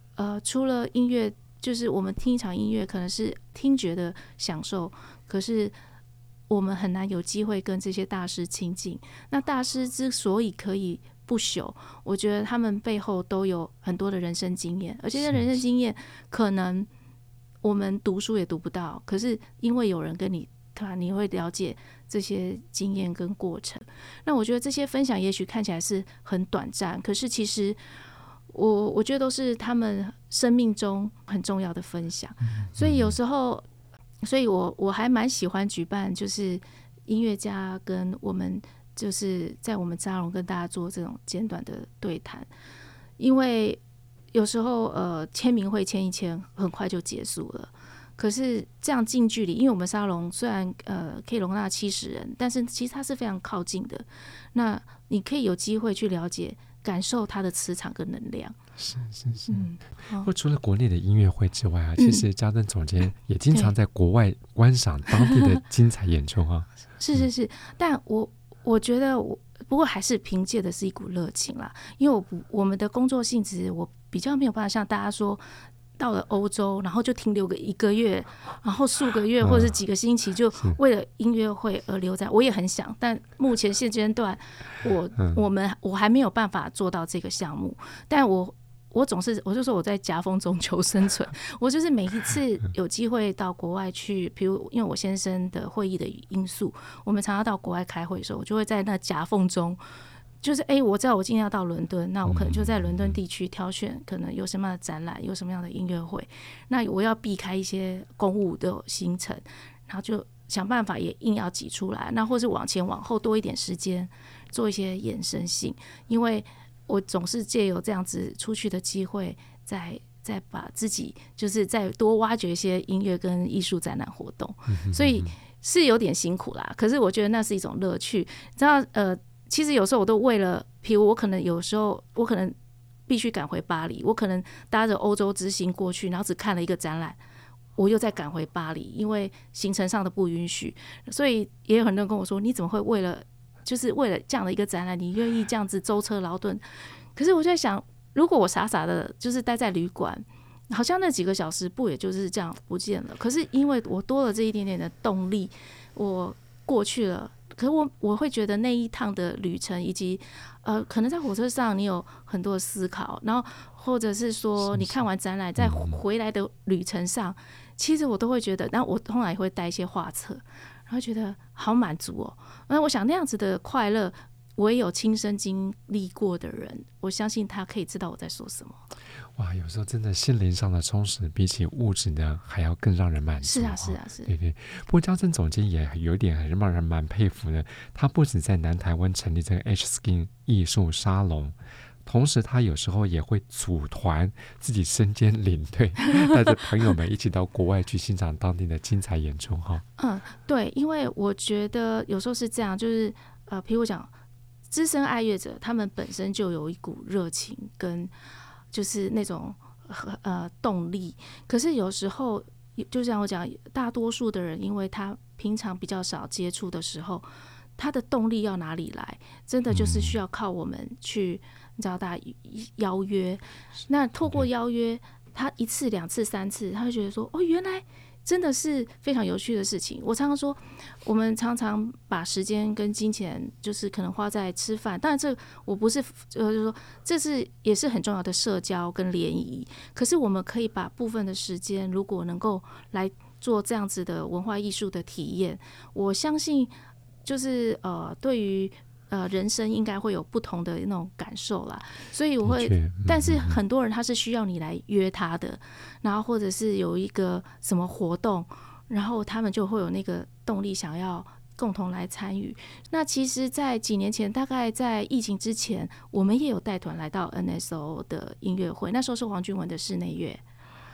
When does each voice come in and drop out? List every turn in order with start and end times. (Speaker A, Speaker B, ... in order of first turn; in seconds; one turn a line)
Speaker A: 0.2-5.8
Speaker A: 6.5-16.9
Speaker A: 17.6-27.8
Speaker A: 28.5-33.7
Speaker B: 32.6-33.2
Speaker A: 34.2-42.5
Speaker A: 43.2-43.8
Speaker A: 44.3-58.6
Speaker B: 58.8-59.7
Speaker A: 59.5-60.3
Speaker B: 60.2-67.3
Speaker A: 62.0-62.2
Speaker A: 65.2-65.5
Speaker A: 67.0-75.4
Speaker A: 76.0-99.8
Speaker B: 79.4-79.8
Speaker A: 100.4-132.6
Speaker B: 102.3-103.1
Speaker B: 124.7-125.3
Speaker A: 133.1-137.2
Speaker A: 137.8-146.6
Speaker A: 147.2-178.8
Speaker B: 165.6-166.0
Speaker B: 179.3-199.8
Speaker A: 183.4-184.3
Speaker A: 200.0-204.1
Speaker A: 204.7-208.1
Speaker A: 208.7-246.7
Speaker B: 219.7-220.2
Speaker A: 247.2-270.4
Speaker B: 252.4-253.6